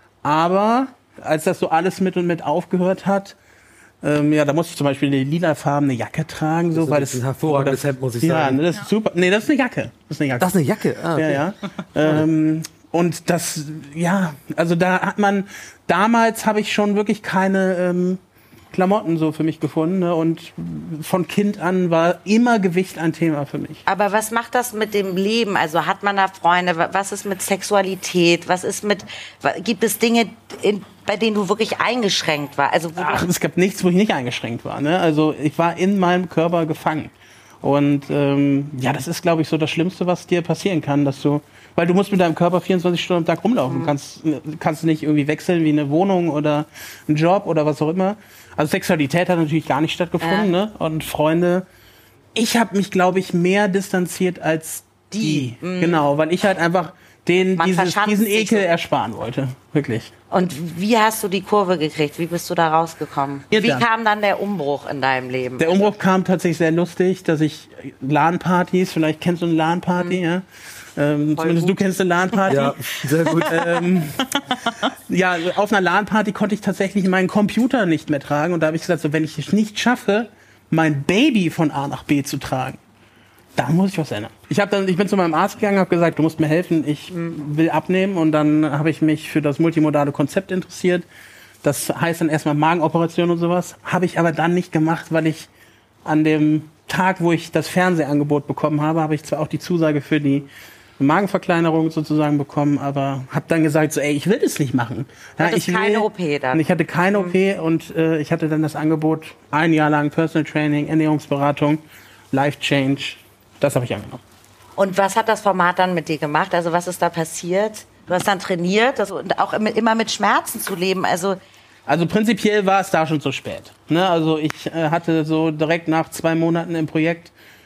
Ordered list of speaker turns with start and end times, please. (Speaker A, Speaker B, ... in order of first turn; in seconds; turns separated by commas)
Speaker A: 0.2-3.4, Speaker A: 4.0-10.5, Speaker B: 6.7-8.6, Speaker B: 10.4-11.4, Speaker A: 11.2-18.2, Speaker A: 18.7-23.8, Speaker C: 23.9-33.3, Speaker A: 33.0-51.7, Speaker C: 43.7-43.9, Speaker C: 50.2-50.5, Speaker A: 52.4-60.1, Speaker C: 55.1-56.0, Speaker C: 57.6-58.7, Speaker C: 60.3-65.9, Speaker A: 63.5-63.9, Speaker A: 65.6-70.5, Speaker A: 71.0-72.8, Speaker C: 71.4-71.8, Speaker C: 72.4-72.8, Speaker B: 72.5-73.6, Speaker C: 73.3-73.7, Speaker A: 73.5-74.4, Speaker A: 74.9-82.8, Speaker A: 83.6-91.1, Speaker A: 91.6-95.5, Speaker A: 96.0-114.2, Speaker C: 105.4-107.4, Speaker C: 114.8-121.4, Speaker A: 121.9-127.3